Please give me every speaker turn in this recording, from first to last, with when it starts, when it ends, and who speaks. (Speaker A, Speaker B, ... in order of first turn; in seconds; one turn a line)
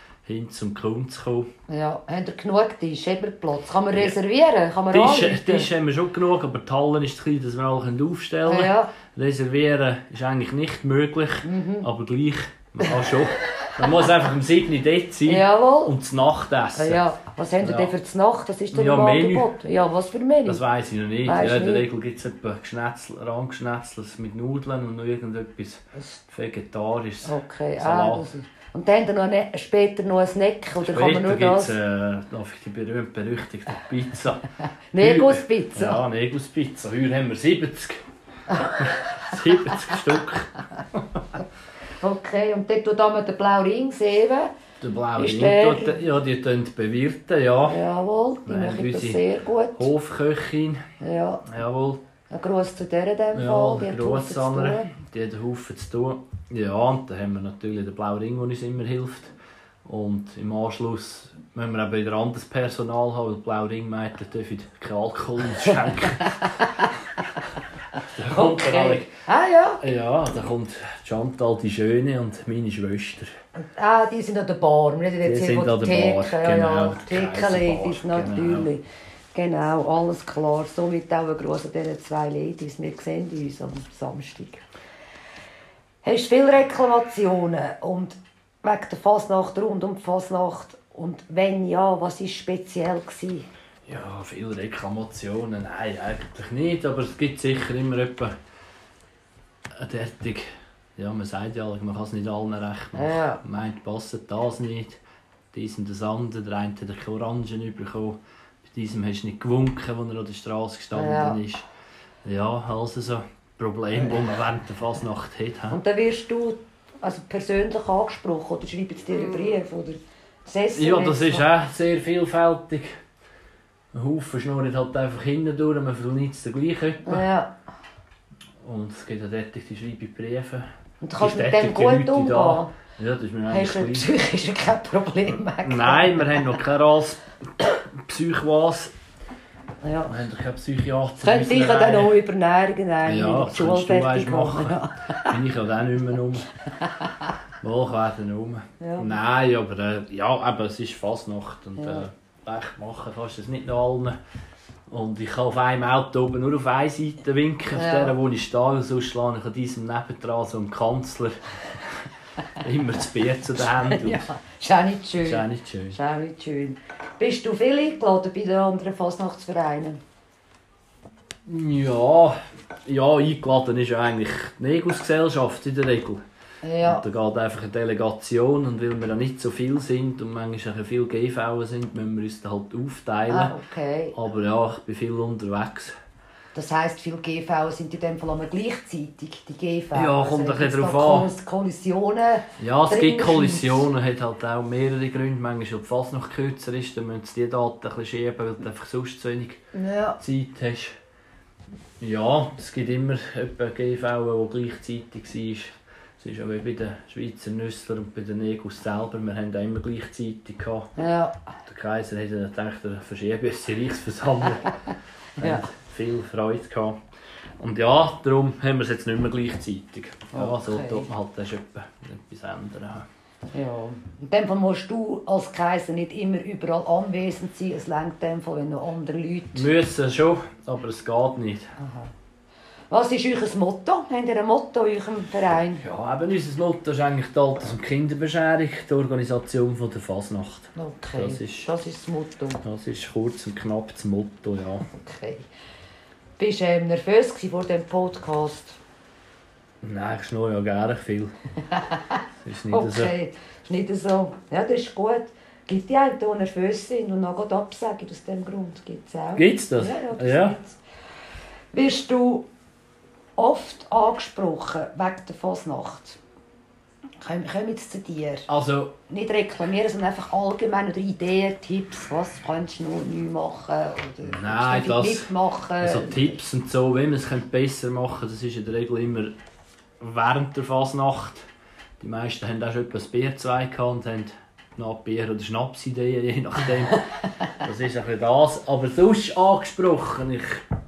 Speaker A: 0.2-1.5
Speaker B: 1.7-5.7
Speaker A: 4.9-17.0
Speaker B: 8.5-8.9
Speaker B: 11.4-11.9
Speaker B: 15.3-15.9
Speaker B: 16.8-20.6
Speaker A: 17.6-17.9
Speaker A: 18.7-19.5
Speaker A: 20.4-28.3
Speaker B: 21.2-21.9
Speaker B: 27.2-31.8
Speaker A: 30.8-38.0
Speaker B: 34.9-36.0
Speaker B: 38.5-39.2
Speaker A: 38.6-41.2
Speaker B: 42.0-44.5
Speaker A: 44.8-47.8
Speaker B: 45.2-46.0
Speaker B: 47.7-49.9
Speaker A: 48.5-49.2
Speaker A: 49.8-50.8
Speaker B: 51.0-51.5
Speaker A: 51.5-52.0
Speaker B: 52.3-54.9
Speaker A: 53.3-59.3
Speaker A: 59.9-67.2
Speaker B: 68.0-69.8
Speaker A: 68.0-69.1
Speaker A: 69.8-73.3
Speaker B: 73.6-78.8
Speaker A: 75.2-78.7
Speaker B: 79.3-84.6
Speaker B: 86.0-93.5
Speaker A: 93.9-98.3
Speaker A: 99.8-105.0
Speaker B: 103.0-103.4
Speaker A: 105.5-111.7
Speaker B: 110.9-111.4
Speaker A: 112.2-115.8
Speaker B: 115.7-121.5
Speaker A: 120.8-122.9
Speaker A: 123.9-127.2
Speaker B: 127.1-127.5
Speaker A: 128.6-130.7
Speaker B: 131.0-132.7
Speaker A: 131.2-134.1
Speaker B: 133.5-136.4
Speaker A: 135.6-138.9
Speaker B: 139.8-140.2
Speaker A: 140.1-142.2
Speaker B: 141.2-145.3
Speaker A: 143.1-146.5
Speaker A: 147.6-154.2
Speaker B: 148.8-149.2
Speaker B: 151.8-152.1
Speaker A: 154.9-162.1
Speaker B: 157.7-158.1
Speaker A: 162.6-164.3
Speaker B: 163.8-170.0
Speaker A: 165.2-166.0
Speaker A: 171.4-176.2
Speaker B: 176.6-177.1
Speaker A: 176.8-183.5
Speaker B: 183.3-184.2
Speaker A: 184.1-185.9
Speaker B: 186.6-193.9
Speaker A: 189.9-191.3
Speaker A: 192.6-199.6
Speaker B: 199.7-200.2
Speaker A: 200.2-200.9
Speaker A: 202.0-210.9
Speaker B: 211.0-211.4
Speaker A: 211.7-214.8
Speaker A: 215.4-217.0
Speaker B: 215.4-215.7
Speaker A: 217.6-223.1
Speaker B: 220.3-221.1
Speaker B: 223.5-229.7
Speaker A: 229.6-231.7
Speaker B: 231.8-232.1
Speaker B: 232.9-235.8
Speaker A: 235.8-241.7
Speaker B: 240.8-242.6
Speaker A: 242.6-244.9
Speaker B: 244.9-245.4
Speaker B: 246.4-248.8
Speaker A: 249.8-251.3
Speaker A: 252.4-253.1
Speaker B: 252.7-260.8
Speaker A: 259.4-260.6
Speaker B: 261.7-262.5
Speaker B: 263.4-266.2
Speaker B: 267.2-268.5
Speaker A: 268.5-269.0
Speaker B: 269.1-276.4
Speaker A: 274.2-279.4
Speaker A: 280.0-281.4
Speaker A: 282.0-290.6